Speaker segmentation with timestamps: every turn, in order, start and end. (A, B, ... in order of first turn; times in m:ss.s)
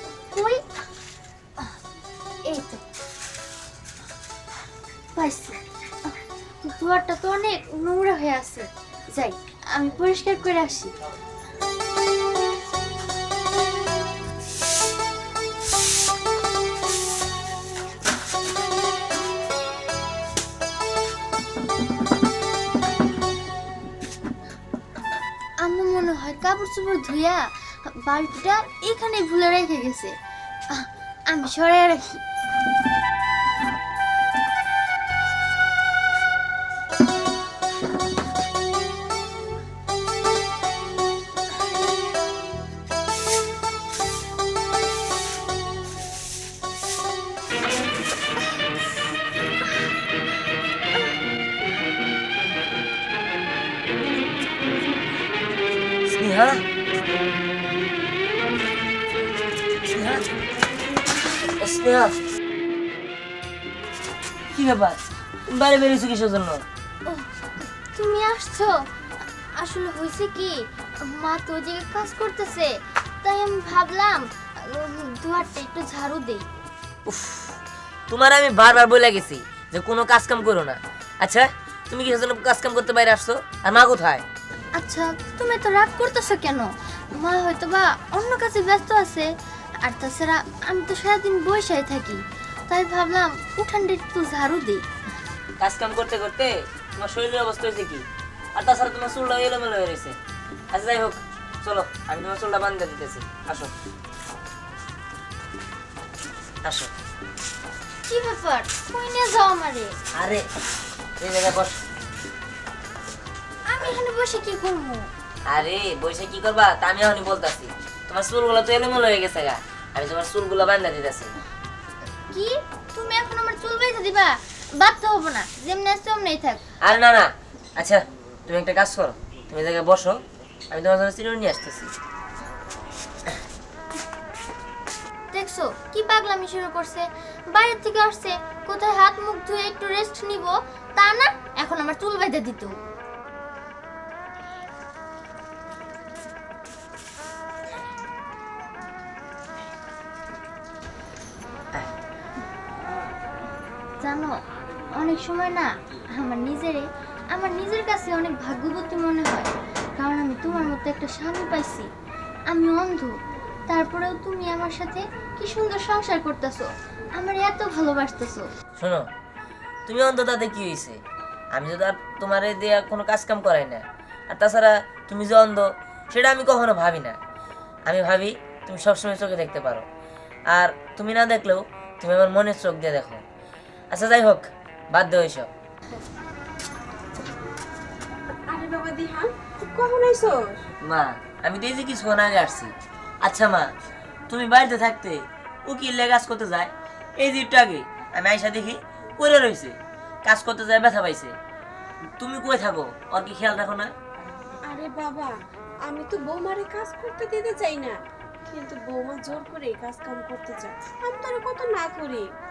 0:00.3-0:00.6 A
0:02.5-0:02.8 A
0:05.2-0:06.1 A
0:06.6-0:10.9 A
0:25.6-0:30.1 A
0:30.7-0:32.2 A
0:56.1-0:56.6 B
0:59.8-1:00.2 B
1:01.6-1:02.1 B
1:04.5-1:05.0 B
1:05.5-1:06.6 B
1:07.9-1:08.7 A
1:09.6-1:10.6 A
1:11.2-1:12.7 A
1:13.2-1:16.4 A
1:17.0-1:17.6 B
1:18.1-1:24.2 B
1:24.8-1:29.3 A
1:29.9-1:34.8 A
1:35.6-1:40.2 B
1:40.7-1:43.7 B
1:46.6-1:46.9 B
1:48.1-1:49.9 A
1:50.2-1:50.4 B
1:51.2-1:51.8 B
1:53.7-1:55.1 A
1:55.5-2:01.3 B
2:02.3-2:06.6 A
2:06.8-2:10.2 B
2:10.7-2:11.9 B
2:15.3-2:22.7 A
2:34.0-2:34.3 A
2:34.9-2:41.9 A
2:42.5-2:43.1 A
2:43.7-2:48.4 A
2:48.8-2:49.1 B
2:49.9-2:51.0 B
2:51.5-2:57.2 B
2:57.8-2:59.8 B
3:00.5-3:03.2 B
3:03.9-3:05.5 B
3:08.5-3:10.6 C
3:10.8-3:12.7 B
3:13.2-3:13.7 B
3:14.3-3:21.3 B
3:22.2-3:23.9 B
3:24.7-3:25.3 C
3:25.9-3:28.0 C
3:28.5-3:32.2 C